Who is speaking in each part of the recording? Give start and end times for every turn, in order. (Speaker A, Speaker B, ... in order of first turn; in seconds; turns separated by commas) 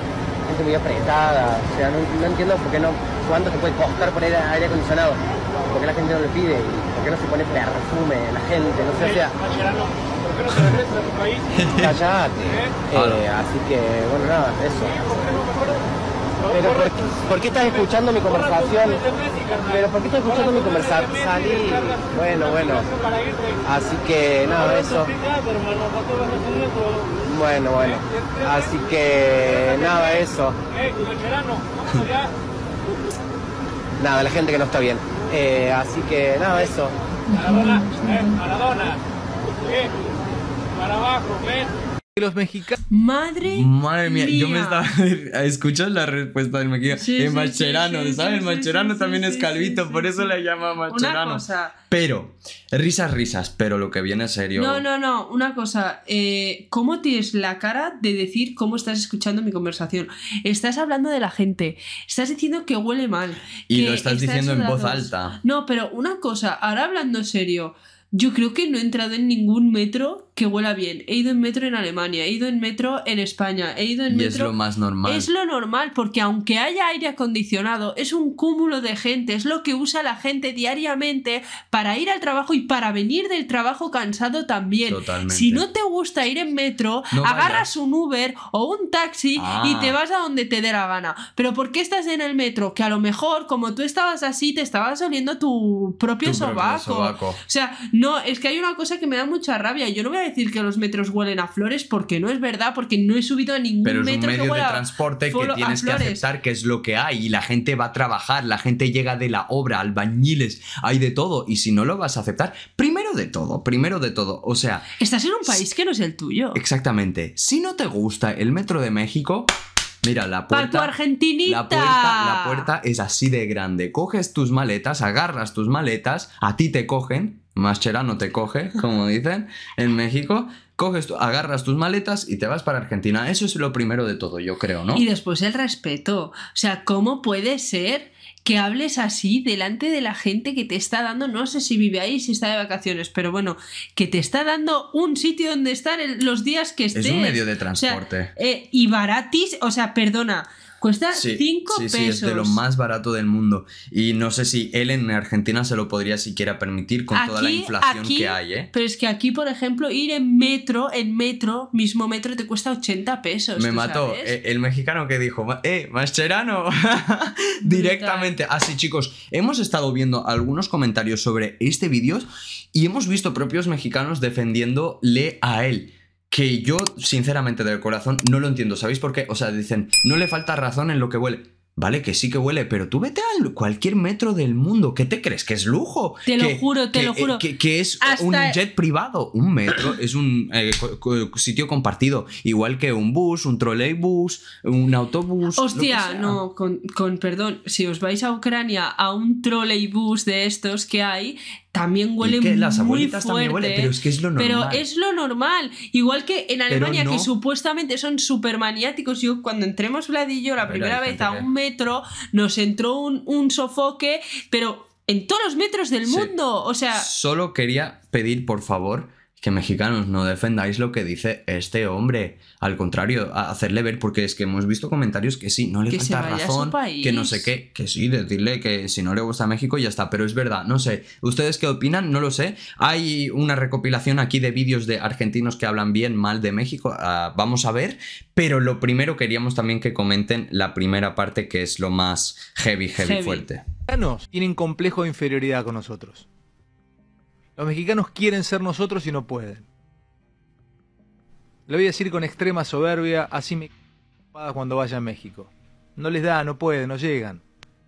Speaker A: 0.5-9.4, Speaker B: 10.5-10.8, Speaker B: 11.6-12.0, Speaker A: 11.8-15.3, Speaker B: 12.9-13.2, Speaker A: 16.5-22.9, Speaker A: 23.6-25.1, Speaker A: 27.2-30.6, Speaker A: 34.0-37.0, Speaker C: 37.3-38.4, Speaker D: 42.1-42.8, Speaker C: 42.9-44.8, Speaker B: 43.5-54.8, Speaker C: 46.9-51.8, Speaker C: 54.6-106.2, Speaker B: 63.7-65.4, Speaker B: 74.1-75.3, Speaker B: 84.9-85.6, Speaker B: 87.1-87.7, Speaker B: 89.4-90.0, Speaker B: 96.2-97.4, Speaker B: 103.8-114.9, Speaker C: 115.0-116.6, Speaker B: 116.5-119.5, Speaker B: 120.0-135.1, Speaker C: 120.5-122.7, Speaker C: 134.9-152.6, Speaker B: 146.9-148.3, Speaker B: 151.1-158.7, Speaker C: 157.1-164.3, Speaker B: 163.6-196.4, Speaker C: 167.6-168.3, Speaker C: 186.2-187.4, Speaker C: 188.0-188.6, Speaker C: 195.6-217.1, Speaker B: 202.2-204.8, Speaker B: 206.7-207.3, Speaker B: 210.6-211.5, Speaker B: 216.0-216.3, Speaker B: 216.9-243.6, Speaker C: 225.9-227.5, Speaker C: 242.9-243.4, Speaker D: 243.9-246.2, Speaker D: 247.6-249.7, Speaker D: 251.7-253.7, Speaker D: 254.3-257.4